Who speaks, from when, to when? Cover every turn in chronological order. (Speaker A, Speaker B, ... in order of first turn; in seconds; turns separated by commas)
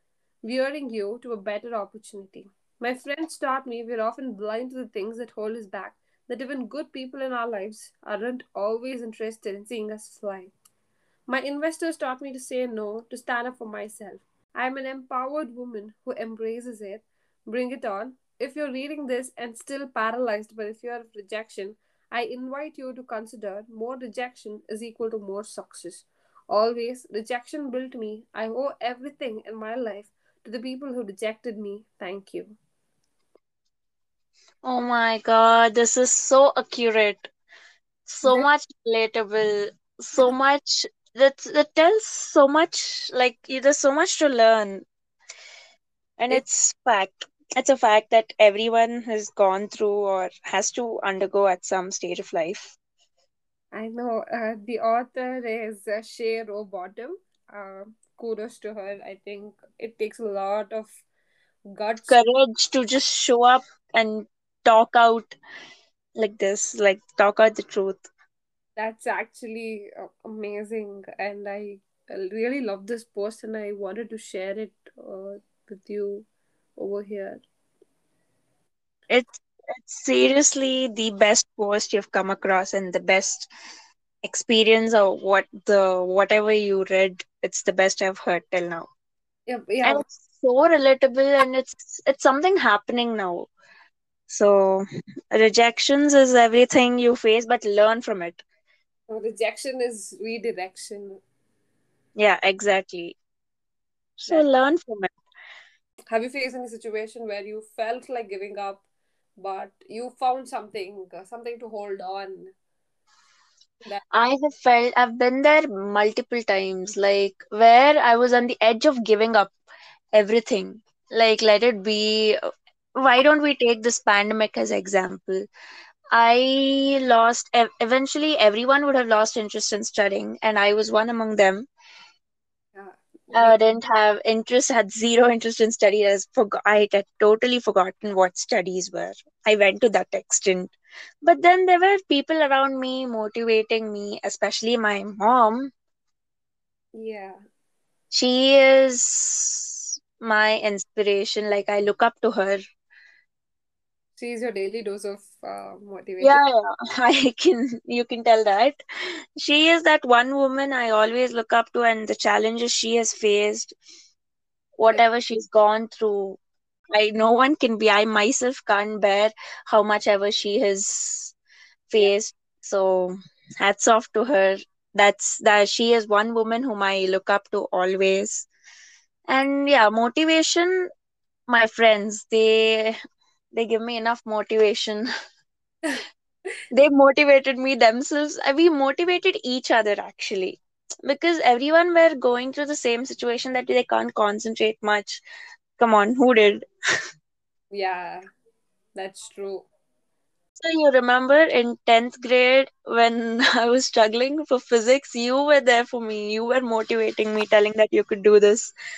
Speaker A: 0.4-10.5, Speaker A: 11.3-32.5, Speaker B: 34.6-37.3, Speaker B: 38.1-44.8, Speaker B: 46.2-52.8, Speaker A: 53.7-60.9, Speaker A: 61.7-62.2, Speaker B: 62.1-65.4, Speaker B: 66.2-68.1, Speaker A: 68.8-77.4, Speaker B: 79.1-83.5, Speaker B: 84.2-88.9, Speaker A: 89.5-90.0, Speaker B: 89.8-93.5, Speaker B: 94.3-98.4, Speaker A: 99.1-101.2, Speaker B: 102.2-103.2, Speaker B: 104.2-105.1, Speaker A: 106.1-108.8, Speaker A: 109.4-112.5, Speaker B: 114.1-119.5, Speaker B: 120.1-122.4, Speaker B: 123.0-125.5, Speaker B: 126.1-131.7, Speaker A: 132.7-133.6, Speaker B: 133.3-145.7, Speaker A: 146.9-147.4, Speaker B: 148.1-152.6, Speaker A: 154.2-156.4, Speaker B: 156.2-158.8, Speaker B: 159.4-163.8, Speaker B: 164.8-166.4, Speaker B: 166.9-171.3, Speaker B: 171.9-178.5, Speaker B: 179.3-180.9, Speaker B: 181.5-182.9, Speaker B: 183.5-185.1, Speaker B: 186.7-195.2, Speaker B: 195.8-196.7, Speaker A: 197.7-198.2, Speaker A: 198.9-199.7, Speaker B: 200.6-208.7